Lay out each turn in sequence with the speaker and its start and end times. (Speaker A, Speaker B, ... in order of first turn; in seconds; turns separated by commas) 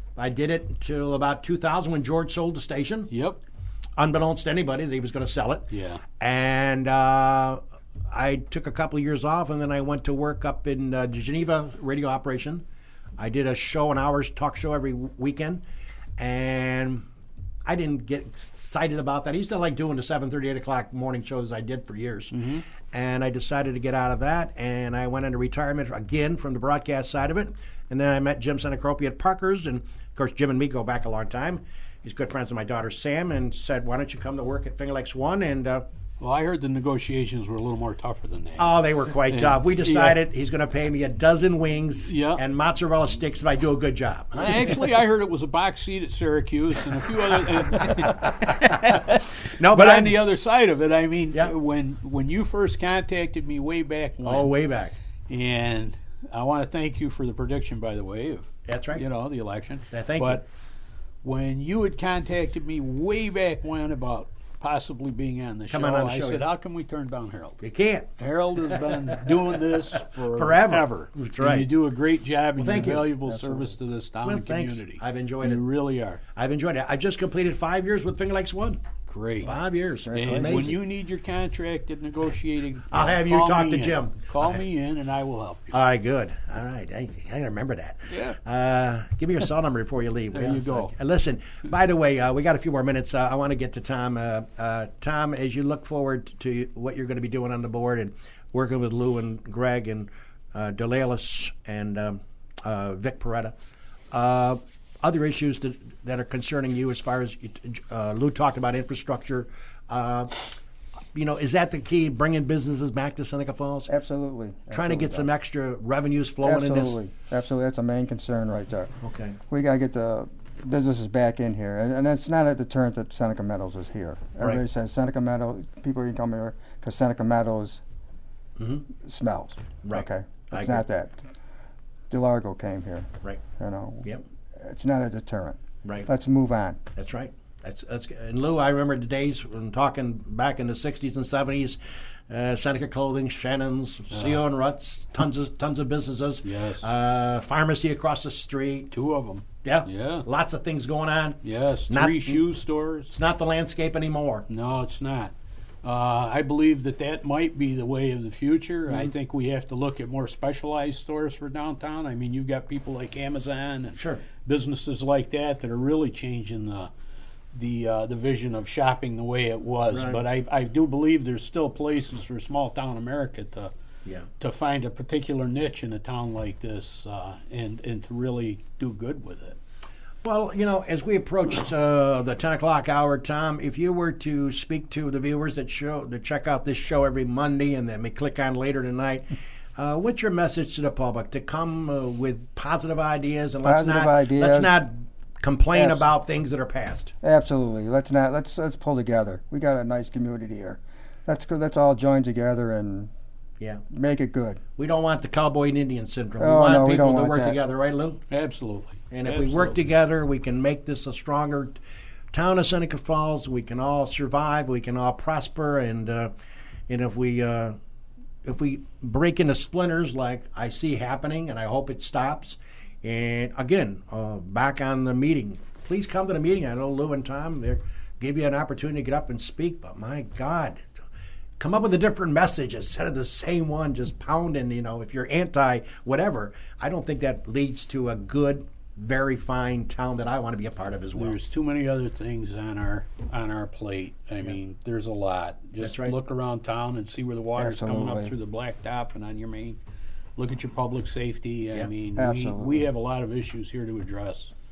Speaker A: 0.2-3.1, Speaker B: 3.1-3.4, Speaker A: 4.0-12.6, Speaker B: 5.7-6.0, Speaker A: 13.2-15.6, Speaker A: 16.2-17.1, Speaker A: 17.6-35.8, Speaker B: 22.3-22.6, Speaker B: 36.2-40.2, Speaker A: 38.6-44.8, Speaker B: 42.1-42.4, Speaker B: 44.4-54.5, Speaker A: 47.8-48.5, Speaker A: 49.5-50.2, Speaker A: 54.2-55.0, Speaker B: 55.3-60.5, Speaker A: 58.7-59.0, Speaker A: 59.9-60.4, Speaker B: 61.2-67.6, Speaker A: 65.7-66.5, Speaker A: 67.6-68.1, Speaker B: 68.2-76.2, Speaker A: 69.9-71.7, Speaker A: 72.6-73.1, Speaker C: 73.2-73.8, Speaker A: 74.2-75.6, Speaker A: 76.3-78.8, Speaker B: 79.1-79.5, Speaker A: 79.4-80.8, Speaker C: 80.0-80.8, Speaker B: 80.1-85.8, Speaker A: 82.9-84.6, Speaker A: 85.7-103.5, Speaker B: 88.1-88.4, Speaker B: 90.3-90.9, Speaker A: 104.1-110.4, Speaker A: 111.2-113.9, Speaker C: 113.9-115.3, Speaker A: 114.7-117.0, Speaker C: 116.4-118.9, Speaker A: 119.0-119.4, Speaker C: 119.5-127.8, Speaker A: 128.6-128.9, Speaker C: 129.0-131.2, Speaker A: 129.8-130.8, Speaker C: 132.1-136.8, Speaker A: 136.9-148.9, Speaker B: 144.1-144.4, Speaker B: 146.4-146.9, Speaker B: 148.9-150.3, Speaker A: 149.6-152.4, Speaker B: 151.4-153.1, Speaker A: 153.1-154.5, Speaker B: 154.5-155.3, Speaker B: 155.8-166.9, Speaker A: 164.0-164.2, Speaker B: 167.6-173.7, Speaker A: 169.9-170.2, Speaker B: 174.4-179.6, Speaker A: 180.2-189.2, Speaker A: 189.8-197.1, Speaker C: 193.6-194.8, Speaker C: 195.7-196.1, Speaker C: 197.2-203.1, Speaker C: 203.9-204.6, Speaker A: 204.8-208.2, Speaker C: 206.4-207.6, Speaker B: 208.3-209.8, Speaker A: 209.1-211.8, Speaker A: 212.3-216.3, Speaker A: 216.9-217.8, Speaker A: 218.4-230.9, Speaker A: 231.6-241.4, Speaker B: 241.2-249.8, Speaker A: 245.8-246.2, Speaker C: 247.6-248.3, Speaker B: 250.4-254.5, Speaker C: 252.2-252.9